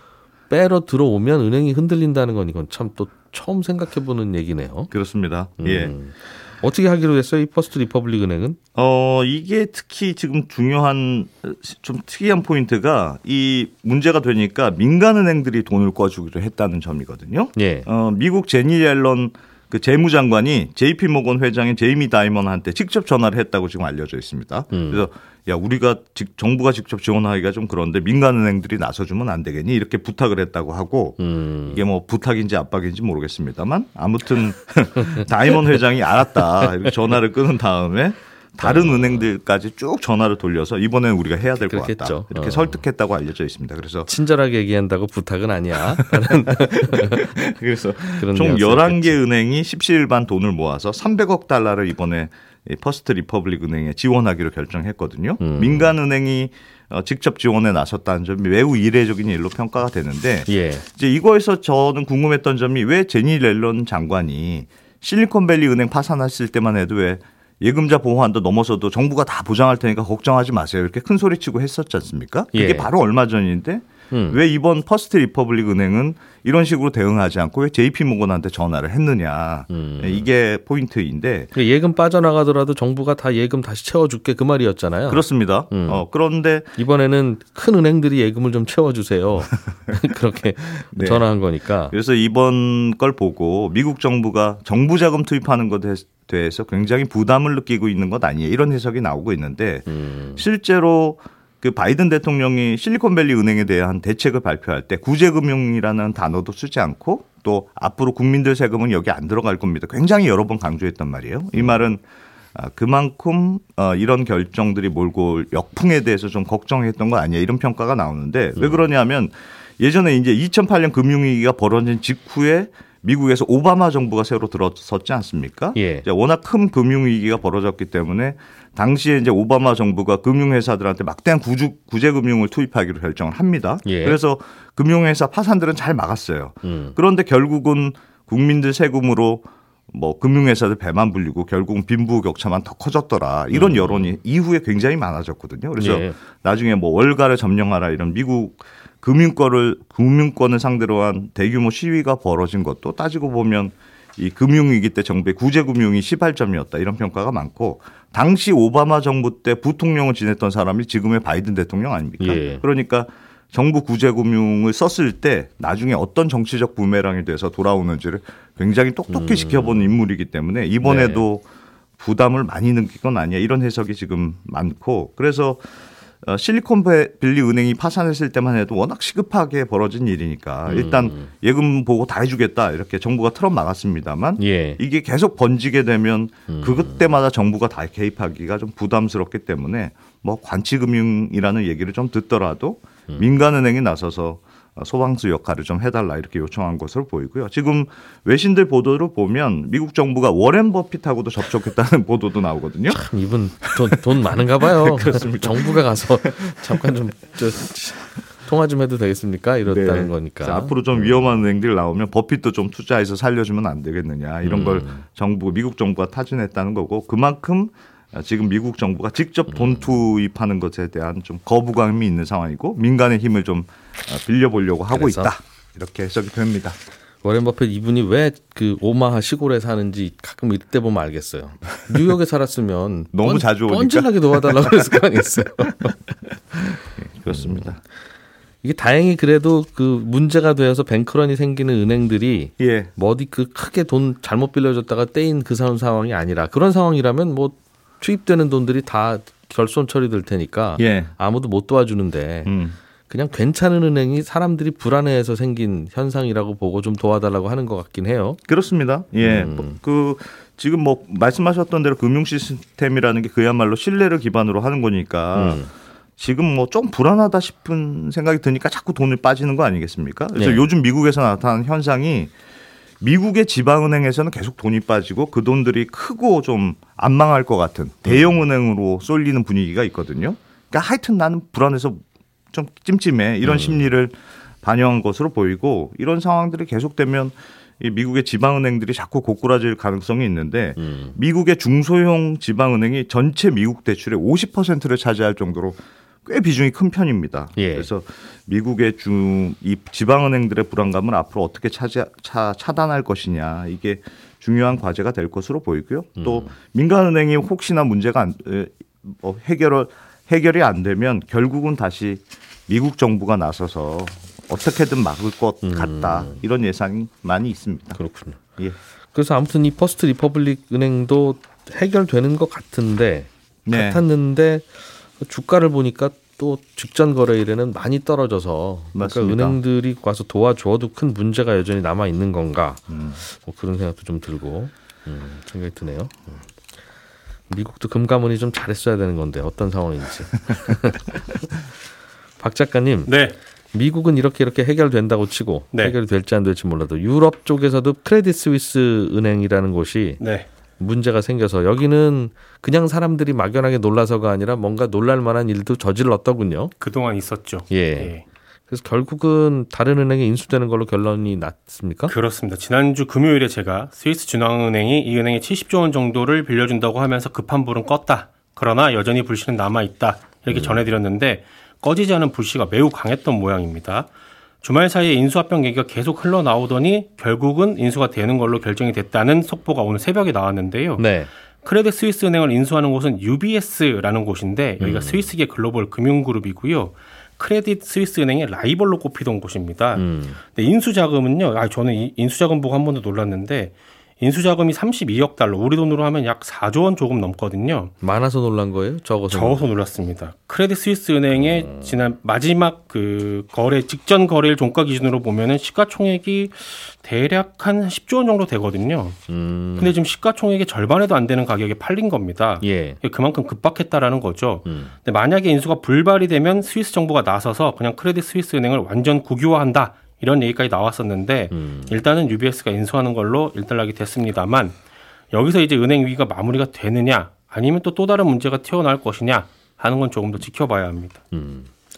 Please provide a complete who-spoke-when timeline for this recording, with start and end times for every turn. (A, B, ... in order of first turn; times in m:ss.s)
0:00.5-0:04.9 A
0:04.9-0:05.9 B
0:05.6-0:08.6 A
0:08.8-0:44.1 B
0:17.5-0:17.9 A
0:24.7-0:25.0 A
0:31.2-0:31.8 A
0:38.6-0:39.2 A
0:41.6-0:42.8 A
0:44.0-0:47.3 A
0:46.4-1:21.5 B
0:48.2-0:49.2 A
0:55.4-0:55.9 A
1:00.5-1:00.8 A
1:12.5-1:12.9 A
1:14.1-1:14.4 A
1:19.7-1:20.3 A
1:21.5-1:26.0 A
1:25.1-1:26.7 B
1:26.8-1:31.9 A
1:30.9-1:31.2 B
1:31.9-1:52.0 B
1:39.9-1:40.4 A
1:52.5-2:51.4 B
1:58.6-1:58.8 A
2:05.7-2:06.0 A
2:13.8-2:14.2 A
2:16.6-2:17.0 A
2:23.5-2:24.1 A
2:25.8-2:26.2 A
2:42.2-2:42.6 A
2:49.1-2:49.9 A
2:50.8-2:51.2 A
2:52.0-2:55.6 B
2:56.2-3:23.1 B
3:00.7-3:01.3 A
3:04.4-3:04.8 A
3:06.5-3:06.9 A
3:22.9-3:31.1 A
3:24.4-3:26.9 B
3:29.7-3:46.8 B
3:34.4-3:35.0 A
3:44.9-3:45.3 A
3:47.2-3:56.0 A
3:53.1-3:54.9 B
3:56.8-3:57.8 B
3:57.3-3:57.7 A
3:58.6-4:12.5 A
4:02.6-4:02.9 B
4:10.8-4:11.1 B
4:12.4-4:12.8 B
4:13.1-4:18.4 A
4:18.5-4:25.6 B
4:19.2-4:19.8 A
4:25.3-4:25.7 A
4:26.2-4:32.3 B
4:30.4-4:30.6 A
4:33.0-5:18.0 B
4:38.1-4:38.4 A
4:43.4-4:43.8 A
4:50.8-4:51.2 A
4:57.6-4:57.9 A
5:06.2-5:06.5 A
5:15.6-5:16.4 A
5:18.0-5:18.4 A
5:19.1-5:36.5 A
5:23.6-5:24.0 B
5:28.9-5:29.6 B
5:32.9-5:33.2 B
5:37.5-5:41.4 A
5:42.4-5:43.1 A
5:43.1-5:43.4 C
5:43.7-5:50.2 A
5:50.2-5:50.5 C
5:50.8-5:56.7 A
5:56.8-5:58.2 C
5:57.7-5:58.1 A
5:58.7-6:02.1 A
6:02.1-6:14.1 C
6:10.5-6:10.8 A
6:14.6-6:21.0 C
6:21.0-6:21.3 A
6:21.6-6:37.9 C
6:24.8-6:25.3 A
6:29.9-6:30.4 A
6:38.0-6:39.6 A
6:39.3-6:49.2 C
6:41.3-6:41.9 A
6:49.3-6:49.9 A
6:49.8-7:04.8 C
6:52.6-6:53.0 A
6:54.6-6:54.9 A
7:01.5-7:02.0 A
7:05.3-7:11.2 C
7:11.3-7:11.7 A